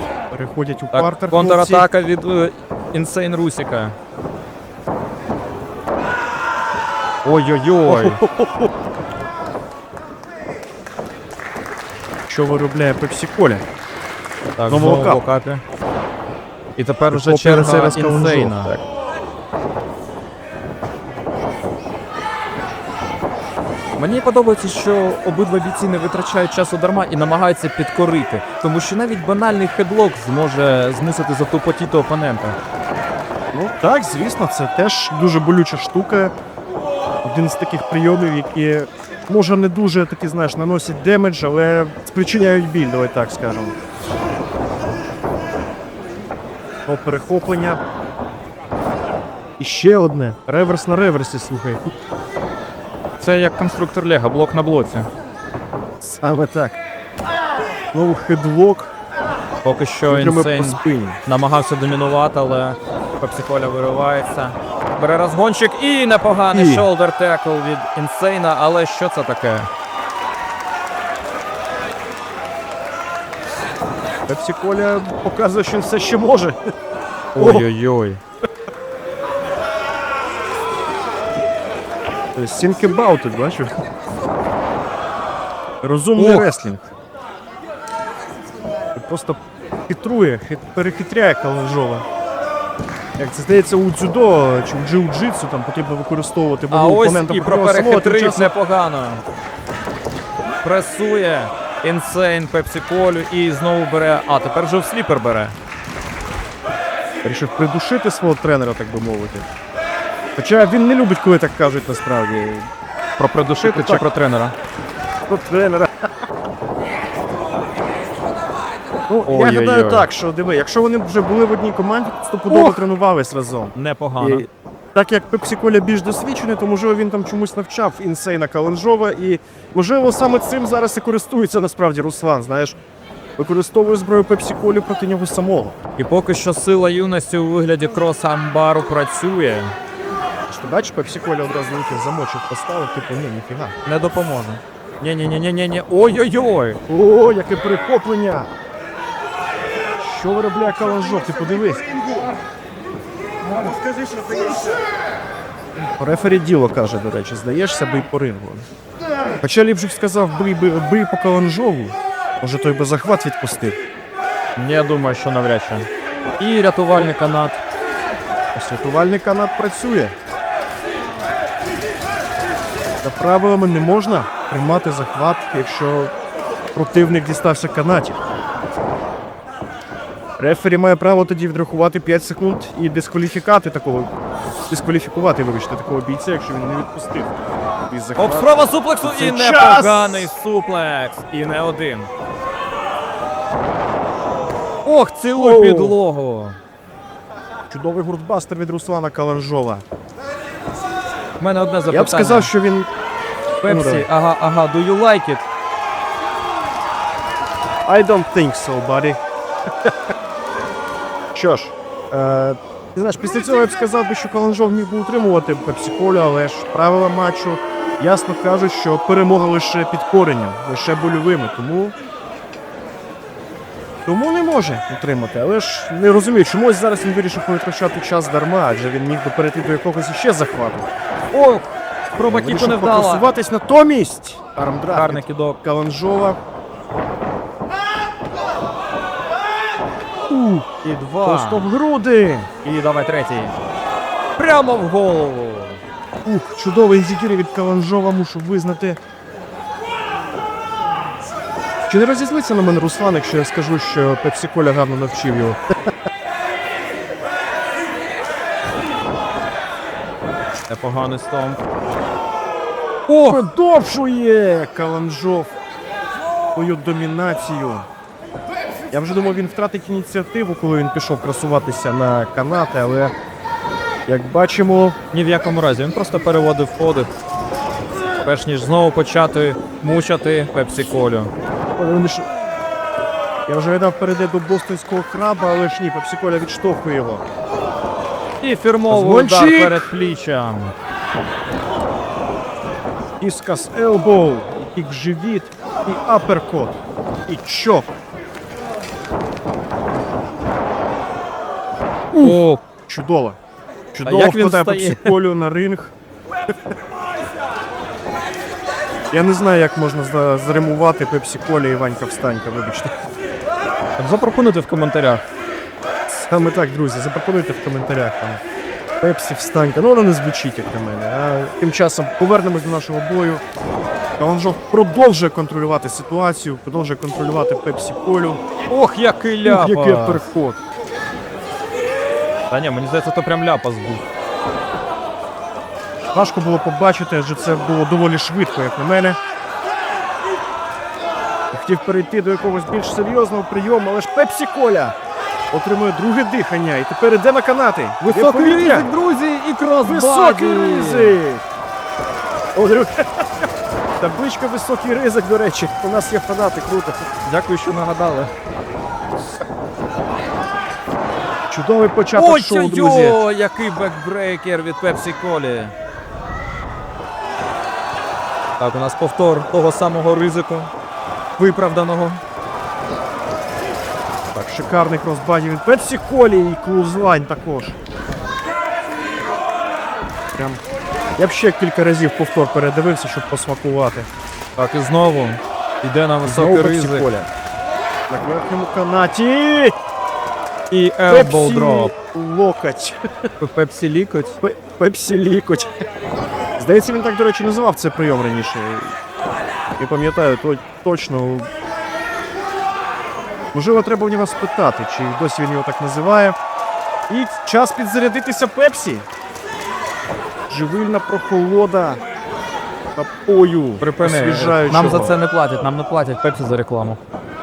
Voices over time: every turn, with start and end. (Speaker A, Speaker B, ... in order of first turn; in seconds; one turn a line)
Speaker A: 0.3-1.9
Speaker B: 0.9-4.0
Speaker B: 7.2-8.2
Speaker A: 7.8-8.7
Speaker A: 12.3-13.6
Speaker B: 14.6-15.6
Speaker A: 14.7-15.2
Speaker B: 16.8-18.7
Speaker A: 17.1-18.8
Speaker B: 24.0-32.6
Speaker A: 33.5-36.3
Speaker A: 37.2-43.7
Speaker A: 46.9-47.8
Speaker A: 49.6-51.9
Speaker B: 53.2-55.1
Speaker A: 56.0-56.8
Speaker A: 57.9-58.9
Speaker B: 59.6-69.7
Speaker A: 60.0-61.2
Speaker A: 66.5-66.9
Speaker A: 74.3-76.5
Speaker A: 77.3-77.7
Speaker B: 77.3-78.2
Speaker A: 82.3-83.7
Speaker A: 85.8-86.9
Speaker B: 86.2-86.5
Speaker A: 89.0-92.0
Speaker A: 93.2-98.5
Speaker B: 96.7-99.2
Speaker B: 100.6-105.5
Speaker A: 107.2-109.5
Speaker A: 110.4-112.7
Speaker B: 113.2-114.5
Speaker A: 113.6-114.0
Speaker A: 115.3-116.1
Speaker A: 119.1-132.8
Speaker B: 119.2-120.1
Speaker B: 122.5-122.8
Speaker B: 123.7-124.5
Speaker A: 133.4-135.7
Speaker B: 136.0-139.7
Speaker A: 140.5-143.7
Speaker B: 143.8-146.8
Speaker A: 146.9-148.5
Speaker A: 150.0-151.9
Speaker A: 156.0-158.7
Speaker A: 159.4-163.8
Speaker B: 164.6-165.9
Speaker B: 166.4-167.6
Speaker A: 168.5-170.1
Speaker A: 173.0-176.1
Speaker A: 176.7-178.2
Speaker A: 180.4-184.1
Speaker A: 184.7-187.4
Speaker A: 187.9-190.3
Speaker B: 188.2-192.1
Speaker B: 194.8-196.6
Speaker A: 195.3-196.0
Speaker A: 197.7-199.8
Speaker B: 201.4-202.5
Speaker A: 201.9-202.9
Speaker B: 203.6-205.4
Speaker A: 203.6-204.1
Speaker A: 207.9-209.2
Speaker A: 211.3-221.9
Speaker A: 224.1-230.9
Speaker B: 231.3-233.3
Speaker A: 232.2-236.4
Speaker B: 234.9-235.6
Speaker A: 240.3-240.7
Speaker B: 240.8-241.7
Speaker A: 241.2-242.5
Speaker B: 242.6-243.6
Speaker B: 244.4-245.8
Speaker A: 246.2-249.0
Speaker A: 251.9-255.6
Speaker B: 260.7-261.6
Speaker B: 263.1-263.4
Speaker A: 263.3-265.5
Speaker A: 266.5-267.9
Speaker A: 268.9-273.1
Speaker A: 274.1-274.9
Speaker B: 275.1-277.1
Speaker B: 278.2-281.3
Speaker A: 281.8-282.3
Speaker A: 283.5-287.2
Speaker B: 288.4-290.7
Speaker A: 288.9-289.8
Speaker A: 293.2-297.9
Speaker A: 302.1-303.4
Speaker B: 302.1-302.6
Speaker A: 303.9-305.9
Speaker B: 304.1-305.1
Speaker A: 309.1-312.9
Speaker B: 314.0-315.2
Speaker A: 316.1-318.4
Speaker A: 319.0-323.4
Speaker A: 324.2-328.4
Speaker B: 328.7-330.2
Speaker A: 329.4-330.6
Speaker B: 332.5-334.0
Speaker A: 336.1-339.2
Speaker A: 341.5-344.9
Speaker A: 345.5-348.9
Speaker B: 348.0-351.2
Speaker A: 349.8-351.4
Speaker A: 352.6-353.4
Speaker A: 354.0-357.1
Speaker B: 357.2-358.3
Speaker A: 361.5-363.2
Speaker B: 362.1-365.7
Speaker B: 368.6-370.7
Speaker B: 371.4-372.2
Speaker A: 374.3-377.8
Speaker A: 380.4-380.6
Speaker A: 381.2-384.1
Speaker B: 384.6-387.1
Speaker A: 386.2-387.3
Speaker A: 388.1-389.7
Speaker B: 390.7-391.9
Speaker A: 391.1-393.0
Speaker B: 393.4-394.4
Speaker A: 394.4-395.7
Speaker A: 396.6-398.9
Speaker A: 399.8-401.5
Speaker A: 403.5-406.4
Speaker A: 407.1-409.1
Speaker A: 410.5-412.0
Speaker A: 412.9-415.2
Speaker B: 413.8-417.0